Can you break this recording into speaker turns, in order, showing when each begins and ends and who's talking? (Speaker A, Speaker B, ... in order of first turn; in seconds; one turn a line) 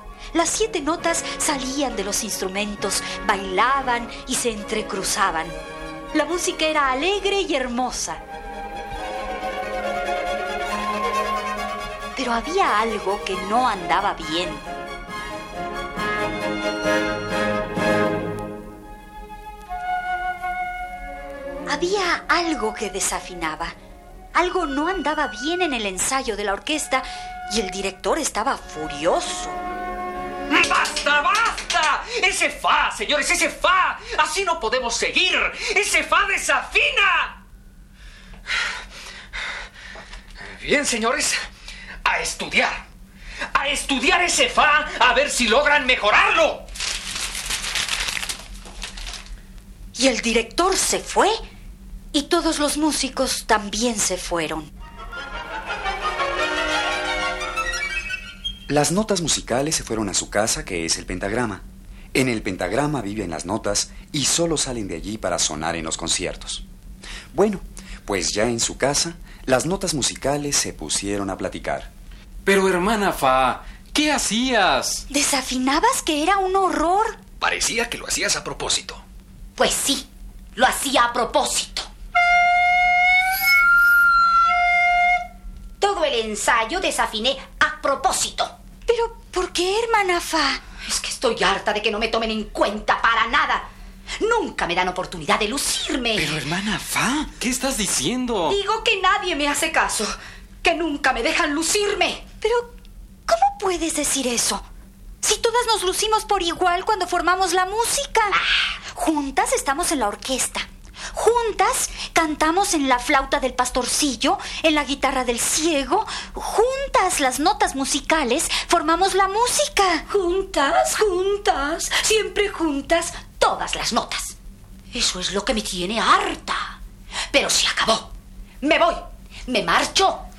Speaker A: 0.3-5.6
Speaker A: 6.1-8.2
Speaker A: 12.2-14.7
Speaker A: 21.7-23.8
Speaker A: 24.4-29.6
Speaker B: 30.5-37.4
Speaker B: 40.4-41.4
Speaker B: 42.0-42.8
Speaker B: 43.5-46.6
Speaker A: 50.0-51.4
Speaker A: 52.1-54.7
Speaker C: 58.7-61.6
Speaker C: 62.1-66.7
Speaker C: 67.3-71.9
Speaker D: 72.5-75.1
Speaker A: 75.1-77.2
Speaker B: 77.4-79.0
Speaker E: 79.6-81.9
Speaker E: 85.8-88.5
Speaker A: 88.9-90.6
Speaker E: 90.8-93.7
Speaker E: 94.2-96.5
Speaker C: 96.1-97.3
Speaker D: 97.4-98.6
Speaker E: 98.5-102.2
Speaker A: 102.4-102.7
Speaker A: 103.3-104.7
Speaker A: 105.2-108.4
Speaker A: 108.9-120.0
Speaker E: 120.1-124.4
Speaker E: 124.9-126.8
Speaker E: 127.3-130.3